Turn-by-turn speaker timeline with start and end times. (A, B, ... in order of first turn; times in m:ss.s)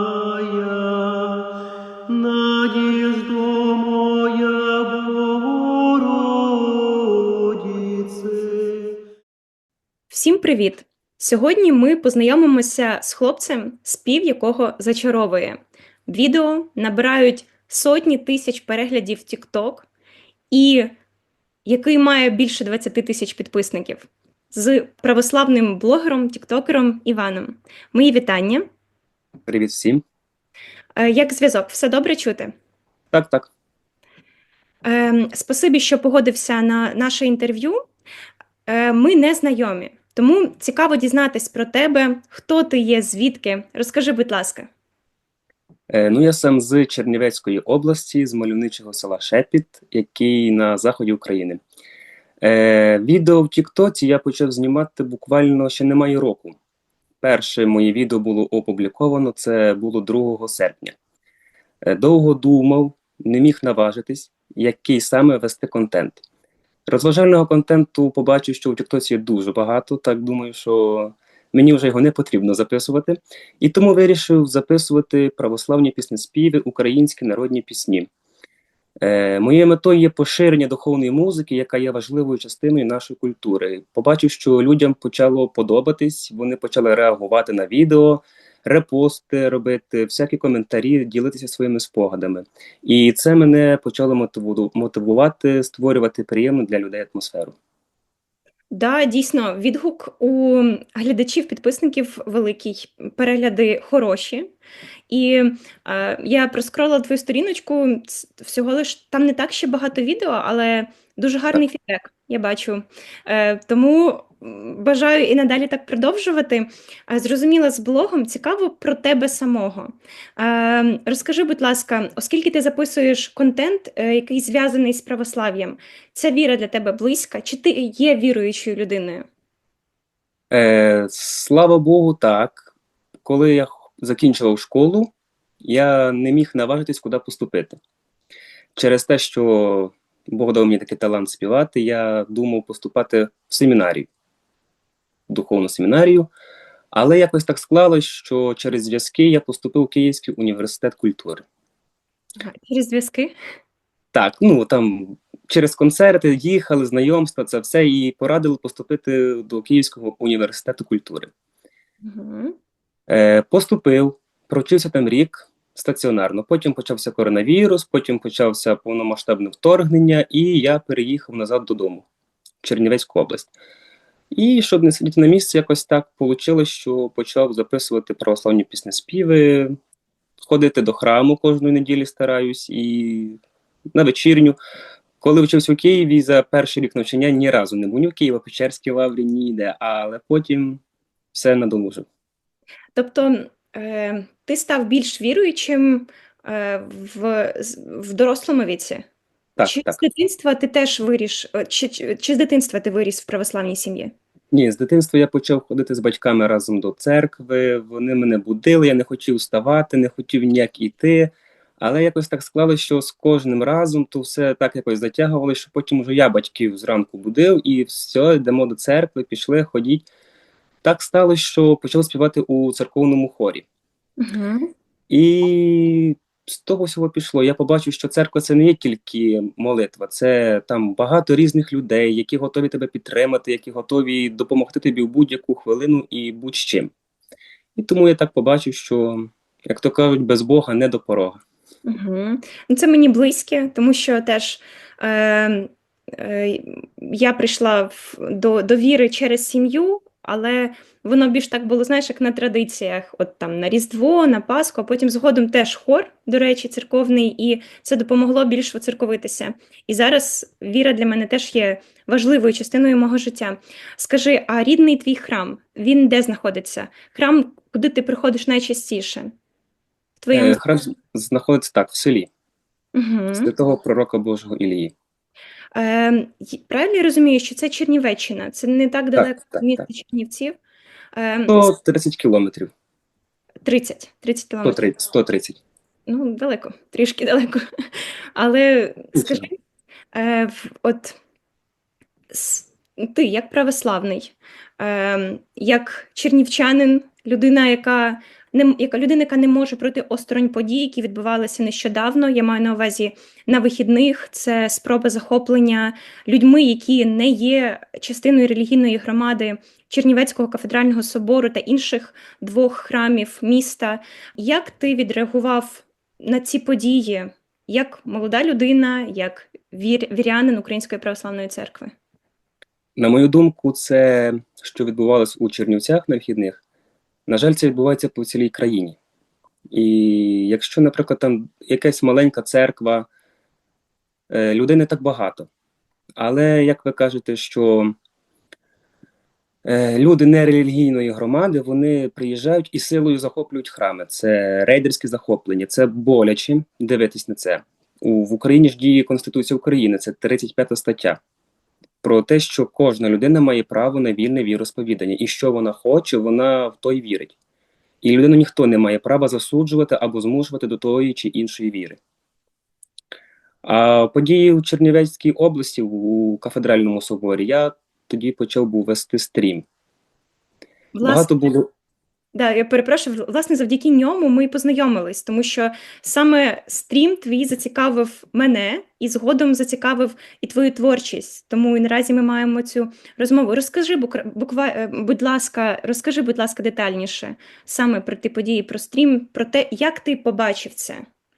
0:00.6-0:00.9 A
0:02.1-0:08.6 A
0:10.1-0:19.9 B
0:20.5-0:20.9 B
0:21.6-0:28.6 B
0:29.5-0:30.0 C
0:31.0-0:32.5 B
0:33.1-0:33.5 C
0:34.8-0:37.8 B
0:38.7-0:44.7 B
0:45.9-0:51.6 C
0:52.4-0:56.6 C
0:57.2-1:01.0 C
1:01.8-1:06.2 C
1:06.9-1:18.1 C
1:19.0-1:37.5 C
1:38.7-1:44.5 B
1:45.1-2:09.2 B
2:10.5-2:12.7 C
2:13.2-2:15.1 C
2:15.6-2:17.8 C
2:18.8-2:24.1 C
2:25.3-2:26.3 C
2:26.9-2:31.4 C
2:32.4-2:33.3 B
2:34.1-2:41.3 C
2:42.0-2:42.6 B
2:43.1-2:52.0 C
2:52.6-2:53.5 C
2:54.3-2:59.8 C
3:00.4-3:03.4 C
3:03.9-3:04.6 C
3:05.2-3:10.8 C
3:11.3-3:12.0 C
3:12.9-3:19.0 B
3:19.6-3:20.0 C
3:19.6-3:24.1 B
3:24.5-3:40.0 C
3:40.8-3:43.6 C
3:44.2-3:44.7 B
3:45.1-3:56.9 C
3:57.8-4:01.4 C
4:01.8-4:29.3 B
4:30.2-4:30.6 B
4:30.3-4:32.3 C
4:32.9-4:33.5 B
4:33.4-4:34.9 C
4:35.7-4:40.5 B
4:39.2-4:39.8 C
4:41.1-4:41.7 B
4:41.5-4:42.7 C
4:43.6-4:44.8 B
4:44.6-4:45.6 C
4:46.1-4:47.6 B
4:48.4-4:49.5 B
4:49.2-4:49.4 C
4:50.1-4:51.2 B
4:52.3-5:21.9 B
5:23.0-5:26.6 C
5:27.3-5:29.0 C
5:29.7-5:33.1 C
5:34.3-5:35.5 C
5:36.2-5:37.9 C
5:39.6-5:51.2 C
5:52.0-5:57.3 C
5:58.0-6:02.0 C
6:03.6-6:09.6 C
6:10.9-6:11.3 B
6:11.0-6:11.7 C
6:12.3-6:31.0 B